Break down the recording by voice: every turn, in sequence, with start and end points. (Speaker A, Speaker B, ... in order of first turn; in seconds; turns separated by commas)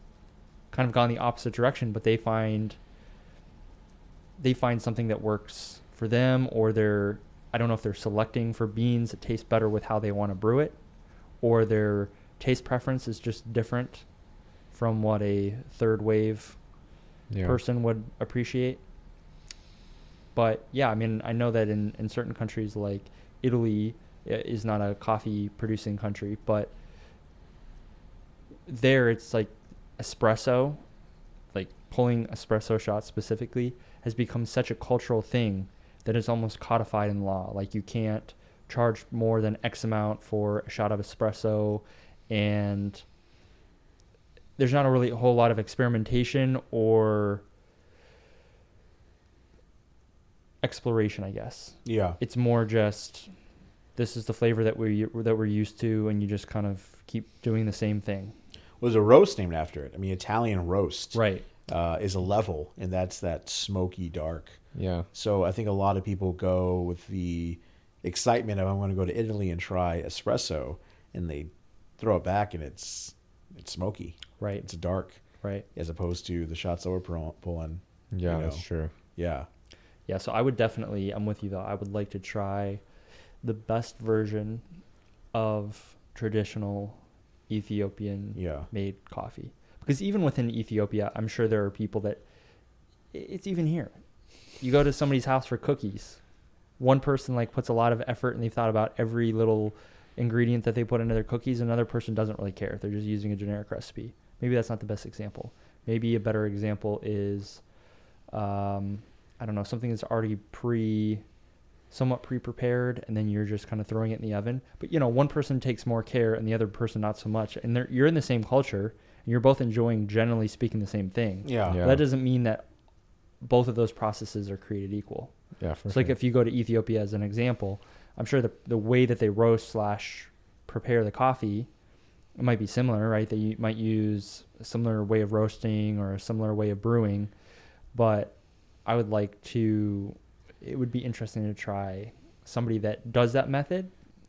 Speaker A: 0.7-2.8, Speaker A: 4.4-10.8, Speaker A: 11.4-14.1, Speaker A: 14.7-16.6, Speaker B: 17.3-17.6, Speaker A: 17.4-18.8, Speaker A: 20.4-26.7, Speaker A: 28.7-30.8, Speaker A: 31.5-43.0, Speaker A: 44.6-47.4, Speaker A: 50.6-53.3, Speaker C: 51.9-52.2, Speaker A: 54.0-58.3, Speaker C: 58.8-64.6, Speaker A: 61.1-61.5, Speaker B: 64.8-65.1, Speaker C: 65.1-75.2, Speaker A: 74.4-74.7, Speaker C: 75.8-78.6, Speaker B: 78.1-78.9, Speaker C: 79.2-79.5, Speaker A: 80.1-82.8, Speaker A: 83.4-84.6, Speaker A: 85.3-92.2, Speaker C: 88.4-88.7, Speaker A: 93.1-94.0, Speaker A: 94.6-96.2, Speaker A: 96.8-107.6, Speaker A: 108.3-111.2, Speaker A: 111.9-122.7, Speaker C: 121.5-121.8, Speaker B: 121.7-122.0, Speaker A: 123.4-125.3, Speaker B: 125.6-126.1, Speaker A: 125.9-131.7, Speaker A: 132.4-137.3, Speaker A: 137.9-138.3, Speaker A: 138.8-143.9